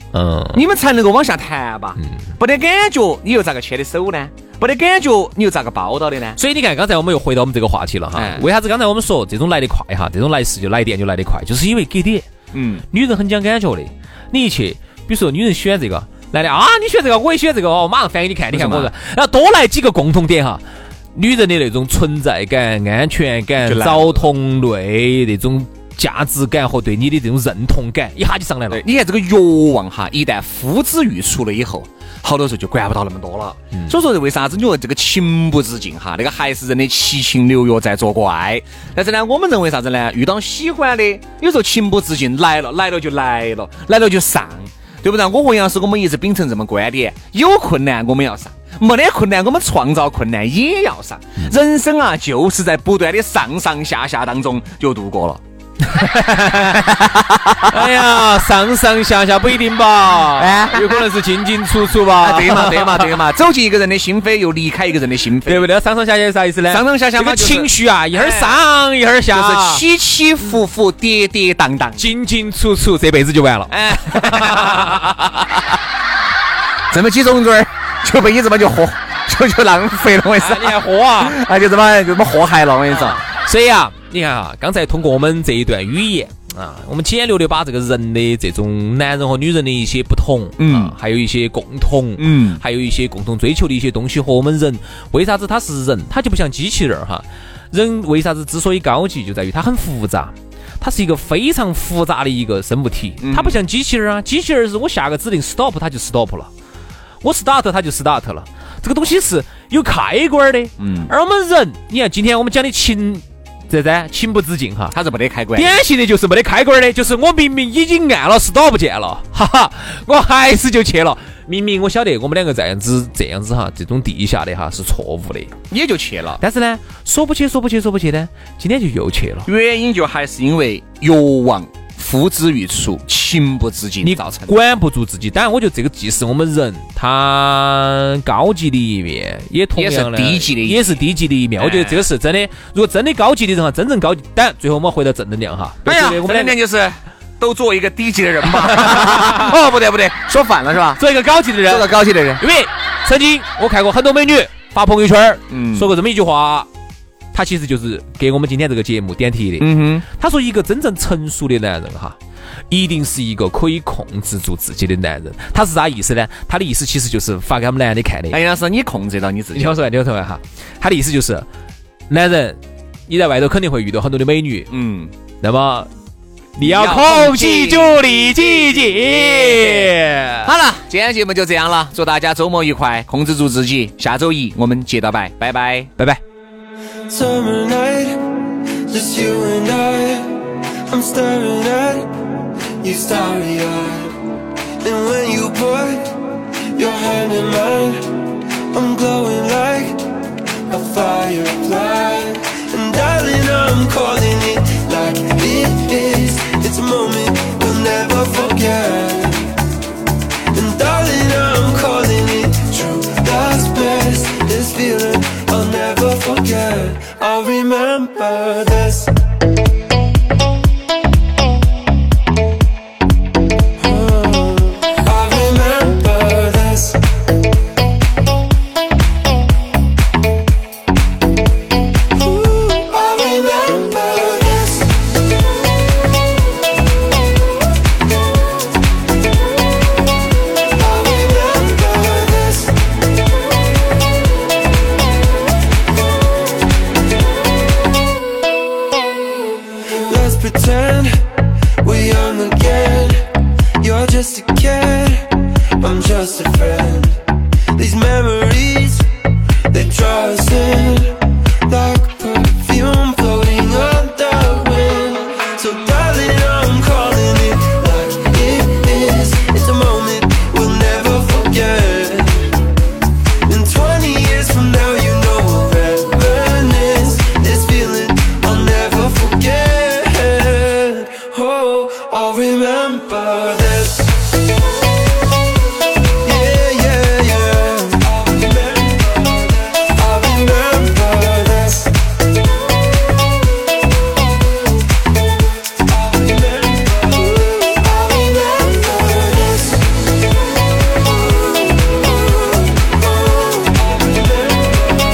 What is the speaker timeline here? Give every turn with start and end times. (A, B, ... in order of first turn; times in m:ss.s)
0:00.1-0:00.6 A
0:00.5-0:06.4 B
0:06.4-0:12.3 A
0:08.2-0:08.4 B
0:12.5-0:12.8 B
0:12.9-0:20.6 A
0:18.5-0:18.9 B
0:21.1-0:28.8 A
0:23.6-0:24.3 B
0:28.7-0:55.4 B
0:55.9-0:56.8 A
0:56.7-0:57.8 B
0:57.6-1:03.2 A
1:00.3-1:01.0 B
1:02.1-1:05.7 B
1:05.4-1:09.8 A
1:06.7-1:08.6 B
1:09.3-1:12.0 B
1:12.0-1:15.0 A
1:13.7-1:15.6 B
1:16.9-1:23.2 B
1:20.4-1:21.4 A
1:22.9-1:46.5 A
1:30.6-1:30.9 B
1:32.2-1:32.6 B
1:43.2-1:43.6 B
1:47.2-1:54.9 A
1:50.8-1:51.1 B
1:54.9-1:55.8 B
1:55.5-2:05.5 A
2:05.7-2:06.4 B
2:06.4-2:09.5 A
2:09.4-2:14.5 B
2:14.0-2:26.6 A
2:19.7-2:20.9 B
2:21.6-2:22.0 B
2:25.8-2:31.0 B
2:28.6-2:29.5 A
2:31.0-2:36.7 A
2:31.6-2:32.4 B
2:35.5-2:35.9 B
2:37.3-2:42.2 A
2:39.6-2:40.0 B
2:42.7-2:48.4 A
2:48.3-2:49.8 B
2:49.5-2:51.4 A
2:52.1-2:54.7 A
2:54.7-2:55.1 B
2:55.4-2:55.9 A
2:56.6-3:00.5 A
2:56.6-2:59.9 B
3:00.4-3:05.9 B
3:07.1-3:08.2 C
3:08.9-3:12.1 C
3:12.8-3:14.2 C
3:14.8-3:16.2 C
3:16.7-3:20.1 C
3:20.7-3:29.6 C
3:30.5-3:39.1 C
3:43.8-3:47.0 C
3:52.2-3:55.0 C
4:00.8-4:02.8 C
4:09.9-4:11.2 C
4:11.8-4:13.2 C
4:13.8-4:17.2 C
4:17.8-4:19.0 C
4:19.7-4:32.6 C
4:33.5-4:44.2 C
4:46.2-4:52.0 C
4:56.2-4:59.8 C
5:03.8-5:04.8 C